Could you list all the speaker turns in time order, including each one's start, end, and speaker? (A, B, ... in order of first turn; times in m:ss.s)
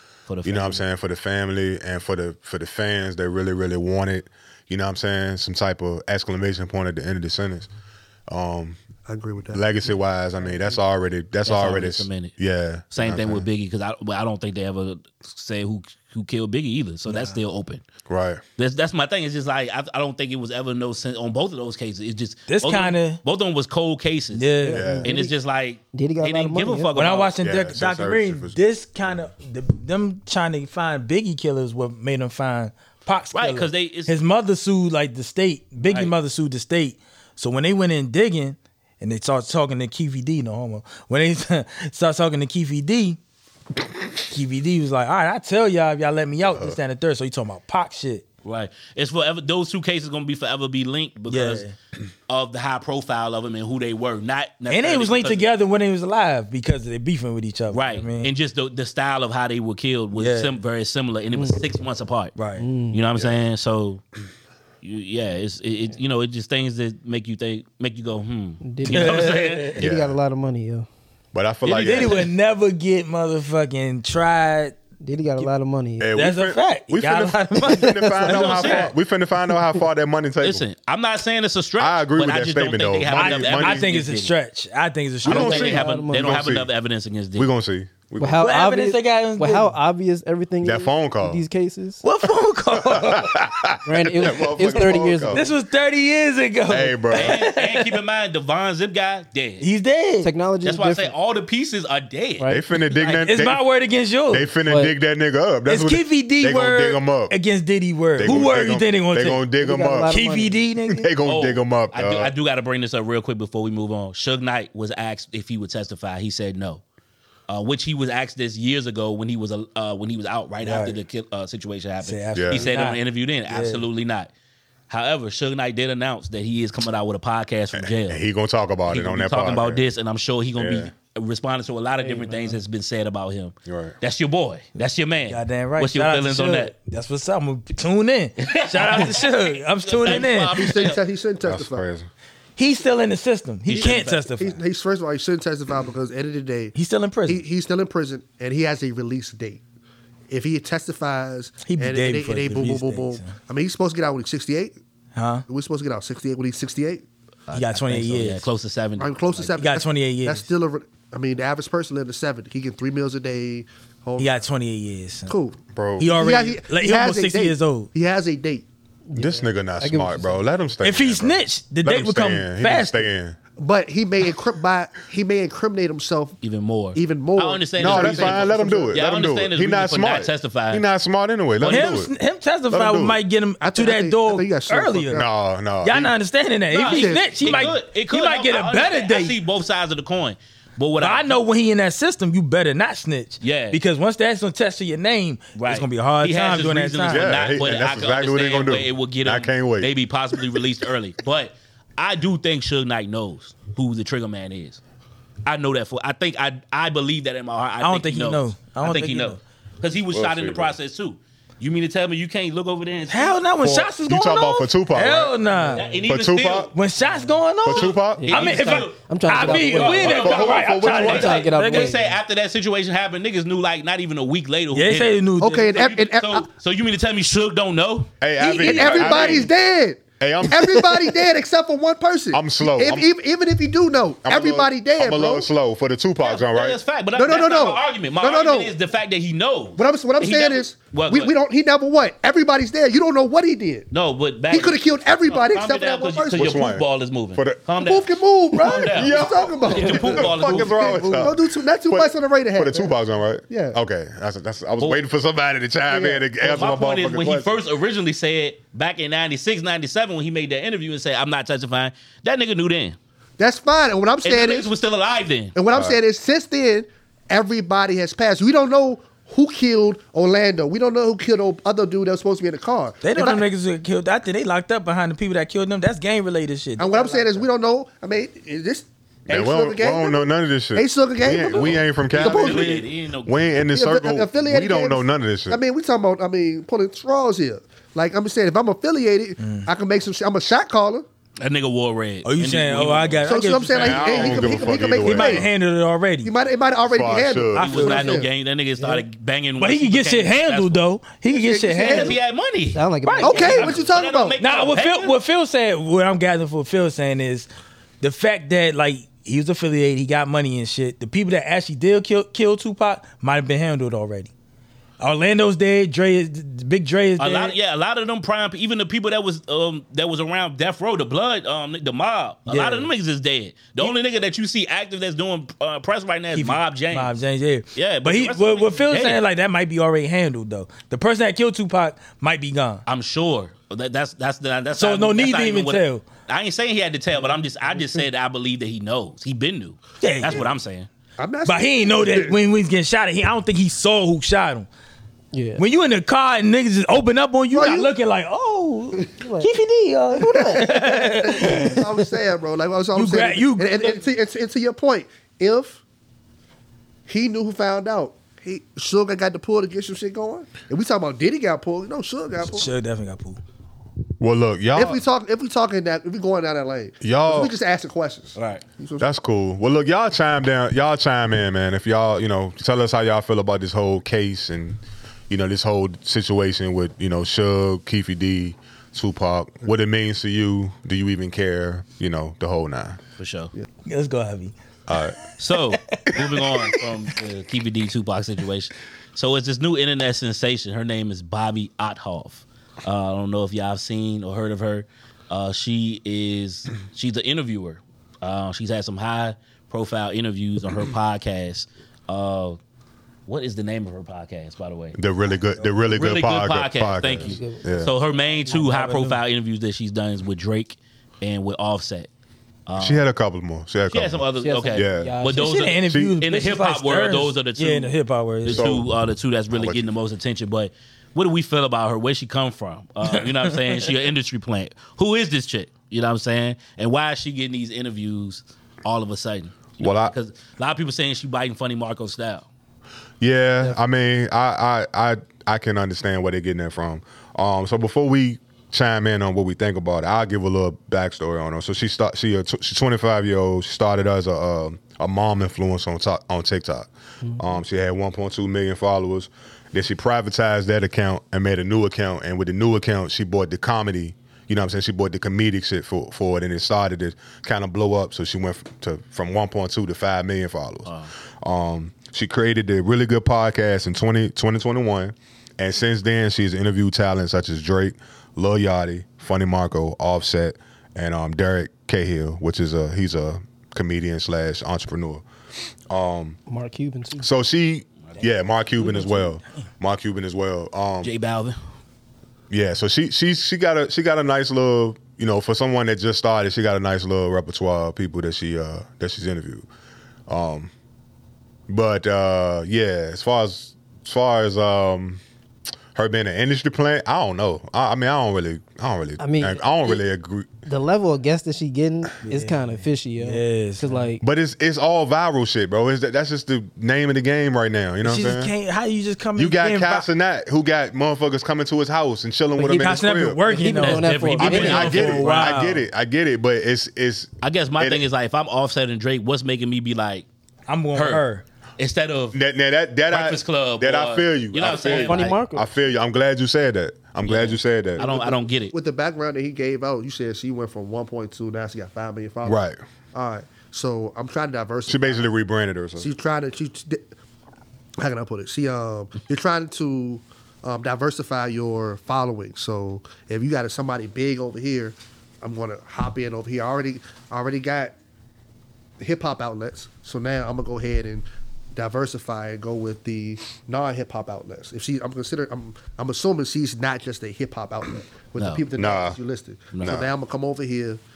0:00.3-0:00.8 A
0:00.4-0:07.7 B
0:08.3-0:08.8 B
0:09.1-0:09.6 C
0:09.5-0:13.4 B
0:11.4-0:12.3 A
0:12.9-0:17.8 A
0:17.1-0:17.4 D
0:18.1-0:18.4 B
0:18.6-0:24.5 A
0:22.5-0:23.2 D
0:24.3-0:25.0 D
0:24.6-0:25.3 E
0:24.7-0:25.1 B
0:25.0-0:27.3 A
0:25.9-0:26.9 E
0:27.0-0:43.2 D
0:27.4-0:28.6 B
0:33.3-0:34.1 A
0:35.8-0:36.1 A
0:44.2-0:48.2 D
0:48.4-0:51.6 A
0:51.3-0:51.7 D
0:52.3-0:55.4 A
0:54.7-0:58.3 D
0:57.7-1:02.3 A
1:00.1-1:00.5 D
1:01.3-1:01.6 E
1:02.4-1:02.6 D
1:02.6-1:03.0 E
1:02.9-1:04.0 A
1:04.8-1:09.8 A
1:08.6-1:10.9 E
1:08.9-1:09.7 D
1:09.8-1:10.2 B
1:11.3-1:12.3 B
1:11.6-1:12.2 A
1:11.7-1:14.8 D
1:15.0-1:16.1 E
1:16.0-1:20.6 B
1:16.1-1:18.6 D
1:17.6-1:18.1 E
1:18.2-1:18.9 A
1:20.4-1:24.3 A
1:21.8-1:23.9 B
1:23.1-1:25.8 D
1:25.2-1:26.7 B
1:25.2-1:27.5 A
1:25.3-1:26.4 E
1:27.4-1:28.5 B
1:28.2-1:32.0 E
1:28.4-1:29.7 D
1:30.6-1:31.4 B
1:32.0-1:33.5 D
1:32.9-1:35.4 B
1:33.8-1:35.5 E
1:35.3-1:38.0 D
1:36.7-1:37.4 B
1:37.1-1:39.6 A
1:39.6-1:40.3 D
1:40.2-1:41.1 E
1:40.6-1:43.2 A
1:42.4-1:42.6 E
1:42.5-1:43.6 B
1:43.2-1:44.5 D
1:44.3-1:47.3 B
1:44.6-1:44.9 E
1:45.7-1:49.4 D
1:48.2-1:50.2 B
1:49.6-1:50.7 E
1:50.1-1:51.1 D
1:50.9-1:52.3 B
1:51.2-1:56.8 A
1:57.5-2:04.3 A
2:00.6-2:01.0 D
2:02.0-2:03.9 D
2:02.3-2:02.6 B
2:04.9-2:08.2 A
2:07.8-2:09.9 B
2:08.9-2:16.7 A
2:10.6-2:10.9 B
2:12.0-2:12.6 E
2:13.6-2:14.0 B
2:15.3-2:20.9 D
2:18.4-2:21.0 A
2:20.0-2:21.8 C
2:21.4-2:22.1 B
2:22.6-2:24.6 D
2:23.7-2:24.2 A
2:23.8-2:26.8 C
2:26.8-2:27.4 D
2:27.3-2:29.6 C
2:30.3-2:34.8 C
2:31.6-2:33.4 D
2:35.1-2:35.4 D
2:35.5-2:37.0 C
2:37.5-2:39.6 A
2:37.5-2:38.4 D
2:39.0-2:44.3 C
2:39.6-2:40.5 D
2:44.2-2:45.3 D
2:45.3-2:48.6 C
2:45.7-2:46.1 B
2:46.0-2:47.9 D
2:49.1-2:50.4 E
2:49.1-2:53.4 B
2:50.8-2:53.1 D
2:53.6-2:56.4 C
2:56.4-3:00.8 A
2:57.0-2:59.0 C
2:57.8-3:02.1 B
3:01.6-3:02.0 A
3:01.6-3:05.2 D
3:02.7-3:03.2 B
3:03.6-3:05.3 C
3:05.1-3:06.1 B
3:05.8-3:09.4 D
3:06.7-3:07.7 C
3:06.7-3:11.4 A
3:11.0-3:17.3 D
3:13.4-3:13.8 A
3:15.5-3:24.8 A
3:17.1-3:19.9 B
3:25.4-3:33.4 A
3:27.8-3:29.4 D
3:30.1-3:30.8 B
3:33.1-3:35.8 D
3:33.6-3:35.4 B
3:35.6-3:36.0 E
3:35.7-3:36.7 A
3:36.1-3:36.7 B
3:36.7-3:42.0 D
3:37.6-3:38.3 B
3:37.7-3:48.1 A
3:38.1-3:42.0 E
3:40.0-3:41.4 B
3:44.7-3:45.7 D
3:45.4-3:46.5 C
3:48.2-3:49.5 B
3:48.4-3:49.4 D
3:48.6-3:55.5 C
3:50.2-3:50.9 B
3:52.3-3:53.1 B
3:54.2-3:56.8 B
3:56.2-4:01.3 A
3:57.1-3:58.7 C
3:59.8-4:03.9 C
4:03.9-4:11.2 A
4:04.5-4:06.5 C
4:06.3-4:07.6 B
4:07.8-4:12.9 C
4:08.6-4:17.6 B
4:13.5-4:13.8 C
4:15.9-4:16.3 C
4:16.4-4:23.0 A
4:23.4-4:24.7 C
4:24.2-4:25.5 A
4:25.5-4:33.4 C
4:25.7-4:26.0 B
4:33.0-4:37.1 D
4:36.8-4:42.8 C
4:37.0-4:37.4 E
4:39.3-4:45.6 B
4:41.6-4:43.4 A
4:43.7-4:51.0 C
4:49.4-4:49.7 D
4:51.4-4:53.3 A
4:52.2-4:56.3 D
4:53.2-4:55.5 C
4:53.7-4:55.5 B
4:56.2-4:58.3 C
4:56.9-4:57.6 B
4:57.5-4:58.2 D
4:57.6-5:00.8 A
4:59.6-5:02.2 D
5:01.3-5:02.2 C
5:01.8-5:05.1 A
5:02.7-5:03.7 E
5:03.0-5:03.8 D
5:03.2-5:04.4 C
5:04.4-5:07.5 D
5:08.0-5:14.3 D
5:15.0-5:17.6 D
5:17.2-5:27.1 A
5:22.5-5:22.9 D
5:26.3-5:32.8 D
5:27.8-5:29.2 A
5:32.8-5:40.9 A
5:34.8-5:36.0 D
5:40.0-5:40.5 D
5:41.2-5:42.3 C
5:41.5-5:44.7 D
5:45.3-5:45.6 E
5:45.6-5:52.0 D
5:47.5-5:47.9 C
5:49.1-5:49.5 E
5:50.2-5:55.8 C
5:52.9-5:54.0 D
5:57.1-6:02.7 C
6:02.4-6:03.4 D
6:04.2-6:05.0 B
6:04.8-6:09.1 C
6:07.0-6:07.5 B
6:08.4-6:08.6 A
6:09.0-6:23.0 B
6:23.2-6:23.5 A
6:23.8-6:24.5 D
6:24.9-6:25.2 B
6:25.4-6:42.6 A
6:25.7-6:26.8 D
6:43.3-6:45.0 A
6:45.0-6:47.9 B
6:45.9-6:52.1 A
6:47.2-6:47.9 E
6:48.5-6:49.2 D
6:52.7-6:53.0 A
6:52.8-6:55.2 B
6:53.9-7:12.5 A
6:54.4-6:55.7 E
6:55.3-6:58.7 D
6:55.9-6:56.2 B
6:58.5-6:58.9 B
6:59.5-6:59.9 B
7:03.1-7:03.9 D
7:09.8-7:10.1 B
7:13.2-7:55.2 B
7:40.8-7:41.1 A
7:55.9-7:56.4 B
7:56.5-7:57.3 E
7:57.2-8:01.1 B
7:58.8-7:59.4 D
8:01.0-8:01.6 A
8:02.5-8:09.6 B
8:10.3-8:10.7 B
8:11.7-8:15.2 B
8:16.0-8:20.5 B
8:19.2-8:20.0 E
8:20.6-8:24.2 E
8:22.2-8:24.0 D
8:24.2-8:28.5 B
8:28.0-8:30.1 D
8:29.4-8:33.4 B
8:32.6-8:35.8 D
8:33.5-8:35.1 E
8:33.8-8:35.6 A
8:34.4-8:38.0 B
8:37.4-8:40.2 A
8:40.7-8:41.4 D
8:40.9-8:41.2 A
8:41.8-8:42.4 A
8:42.3-8:48.1 B
8:43.1-8:45.4 A
8:44.8-8:45.6 E
8:47.2-8:48.7 A
8:48.0-8:52.6 C
8:52.4-8:52.8 B
8:53.1-8:55.2 C
8:54.9-8:56.1 B
8:56.0-8:57.1 C
8:58.0-9:07.9 C
9:09.0-9:21.0 C
9:18.4-9:18.6 A
9:18.8-9:19.2 B
9:19.7-9:20.0 A
9:19.8-9:20.1 B